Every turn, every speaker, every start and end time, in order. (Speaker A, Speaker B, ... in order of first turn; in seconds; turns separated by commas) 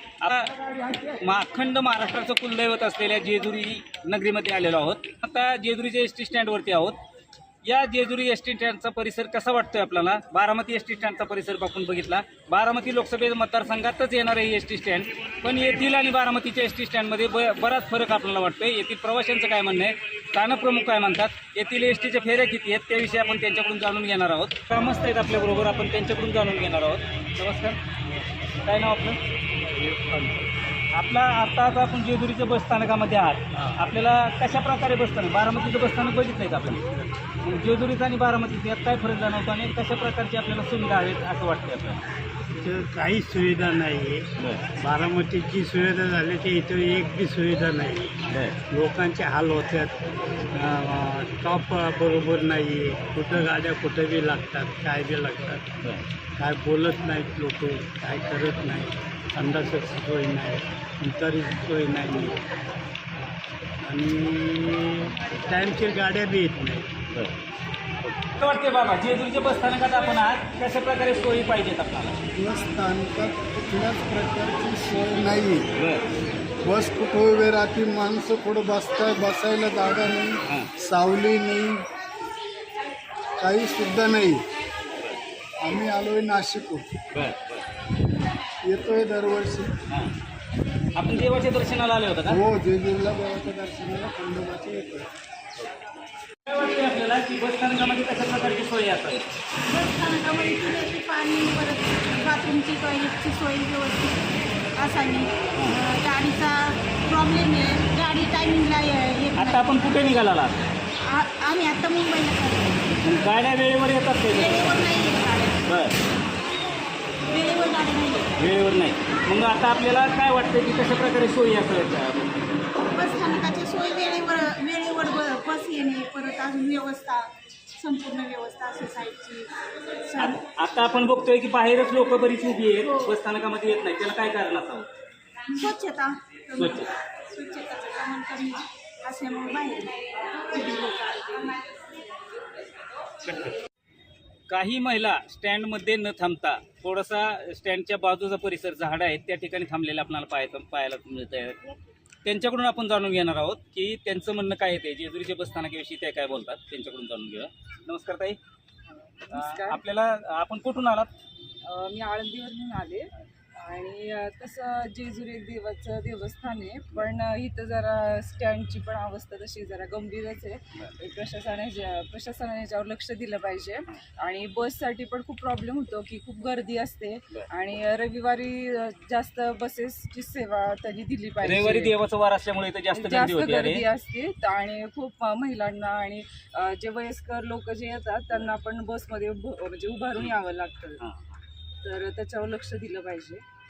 Speaker A: 0.2-0.5, Speaker A: 1.1-7.0, Speaker A: 7.6-27.8, Speaker A: 28.6-29.2, Speaker B: 29.7-30.4, Speaker A: 30.9-36.9, Speaker A: 37.4-42.0, Speaker B: 42.6-49.9, Speaker A: 44.4-44.7, Speaker A: 48.3-48.6, Speaker B: 50.5-55.7, Speaker B: 56.4-62.4, Speaker B: 63.8-66.9, Speaker A: 68.1-72.2, Speaker C: 72.3-75.7, Speaker A: 75.8-76.0, Speaker C: 76.6-81.8, Speaker C: 83.4-84.4, Speaker C: 85.6-86.9, Speaker A: 87.1-87.6, Speaker C: 88.6-89.7, Speaker A: 91.0-92.4, Speaker C: 92.3-95.0, Speaker A: 96.5-99.3, Speaker D: 99.7-109.7, Speaker A: 109.3-110.7, Speaker D: 111.0-112.8, Speaker A: 113.0-114.8, Speaker D: 114.3-115.6, Speaker A: 115.7-116.0, Speaker D: 117.3-118.4, Speaker A: 118.4-122.4, Speaker D: 122.8-129.5, Speaker D: 130.0-130.4, Speaker A: 130.2-134.9, Speaker D: 135.5-141.7, Speaker A: 136.5-136.9, Speaker A: 144.5-151.7, Speaker A: 152.2-158.4, Speaker E: 159.3-159.8, Speaker A: 159.3-161.1, Speaker E: 161.6-181.9, Speaker A: 181.4-183.8, Speaker E: 182.9-191.0, Speaker E: 191.8-193.4